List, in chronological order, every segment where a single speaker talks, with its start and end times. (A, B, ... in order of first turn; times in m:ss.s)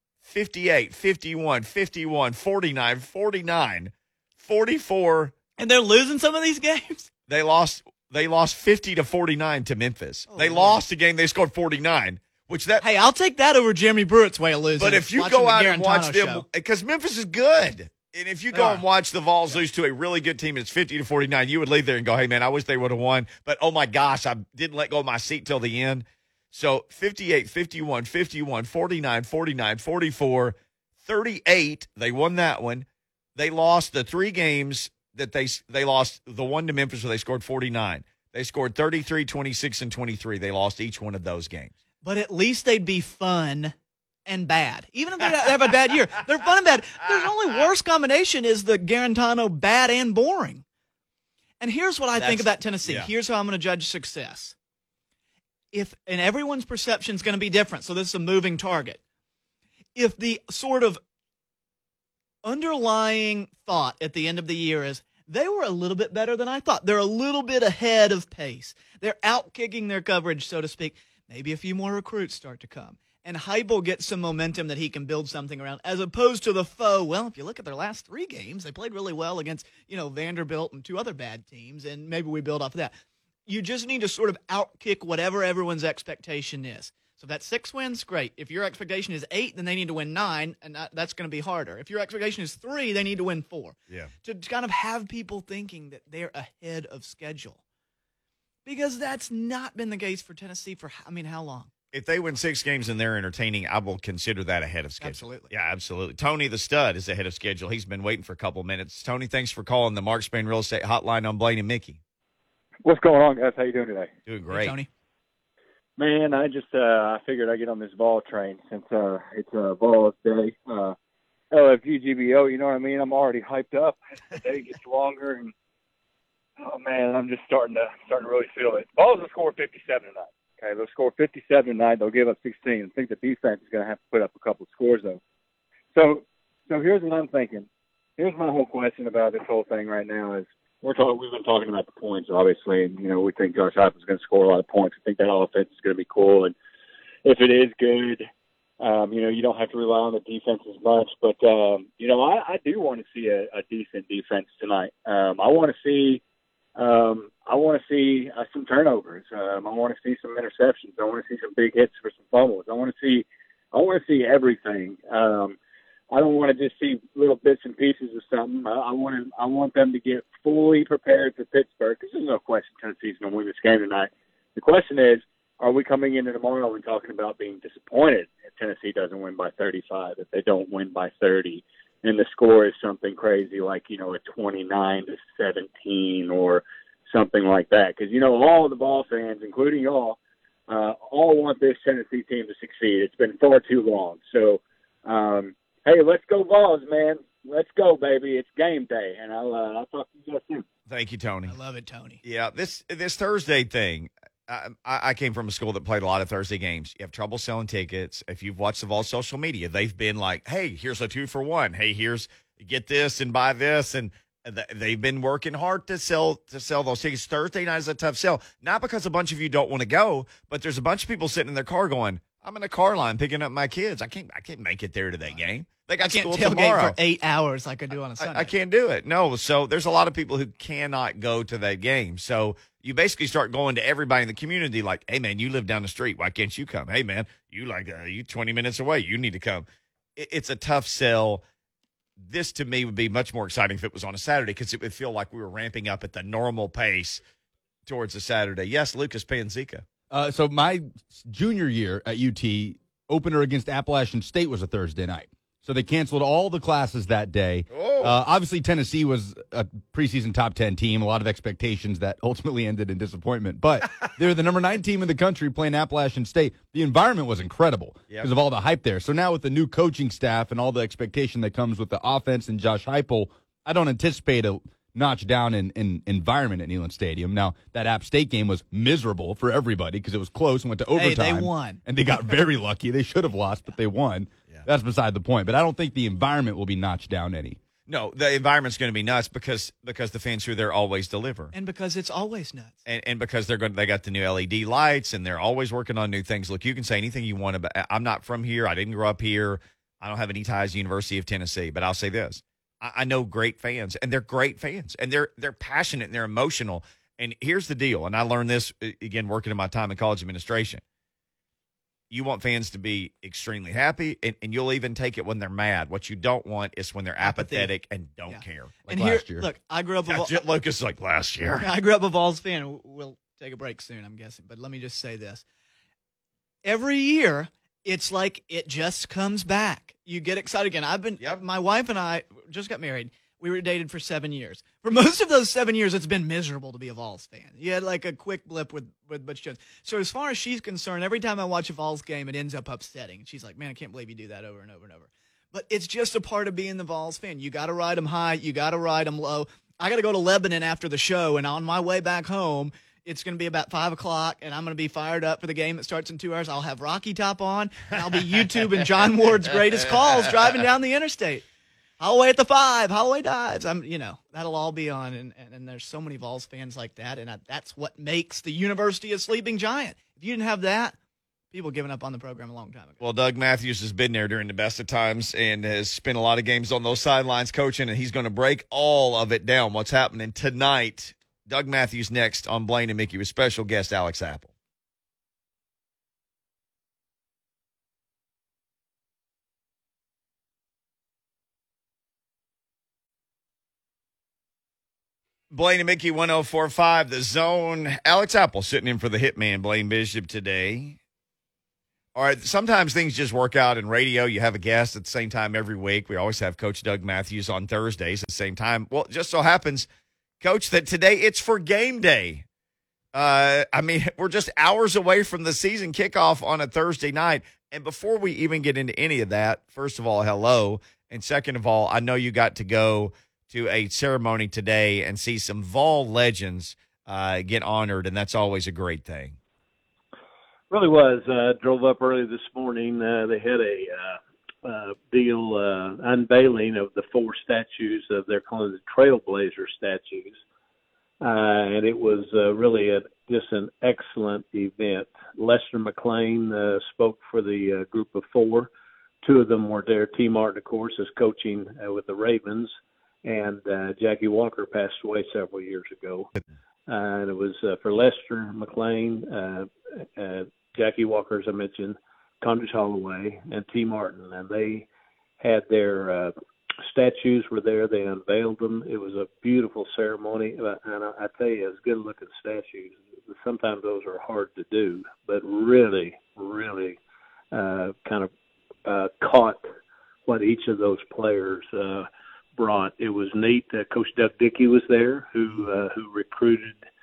0:00.2-0:05.3 A
0:05.6-0:07.1 B
0:07.3-0:12.8 A
0:10.3-0:10.8 B
0:12.8-0:16.4 B
0:14.8-0:41.7 A
0:18.5-0:18.8 B
0:42.0-0:43.7 B
0:44.3-0:50.6 B
0:51.6-0:54.6 B
0:52.2-0:53.1 A
0:55.7-0:59.0 B
1:00.0-1:01.0 B
1:02.4-1:23.0 B
1:23.5-1:37.6 B
1:38.7-1:41.7 B
1:41.9-1:52.0 A
1:45.0-1:45.5 B
1:52.8-1:54.1 C
1:54.3-1:54.7 A
1:54.5-1:54.9 B
1:56.0-2:01.0 C
2:01.5-2:05.5 C
2:06.6-2:15.2 C
2:15.9-2:17.7 C
2:18.2-2:26.5 C
2:27.2-2:28.2 C
2:28.8-2:36.2 C
2:36.8-2:45.6 C
2:46.1-3:20.6 C
3:20.9-3:21.6 A
3:21.5-3:22.2 B
3:22.2-3:47.0 A
3:46.0-3:48.5 B
3:48.2-4:01.4 A
4:02.2-4:07.2 A
4:07.9-4:09.9 A
4:10.1-4:47.6 D
4:17.7-4:18.2 A
4:41.0-4:41.8 B
4:47.9-4:51.5 A
4:51.5-4:52.8 B
4:52.9-5:10.8 A
5:12.1-5:18.8 A
5:17.2-5:17.7 B
5:18.3-5:20.4 B
5:18.8-5:19.5 D
5:20.1-5:21.7 A
5:21.6-5:25.4 B
5:26.6-6:01.4 B
6:02.0-6:11.0 B
6:11.5-6:13.0 B
6:13.0-6:24.5 A
6:35.5-6:41.0 A
6:42.2-6:49.9 A
6:50.4-6:52.4 A
6:53.1-7:09.4 A
7:10.7-7:20.4 E
7:21.2-7:28.7 E
7:29.2-7:32.7 E
7:33.2-7:36.3 E
7:36.9-7:44.9 E
7:45.4-7:46.3 E
7:46.8-7:57.0 E
7:57.5-7:58.3 E
7:58.8-7:59.6 E
8:00.3-8:02.1 E
8:02.6-8:06.8 E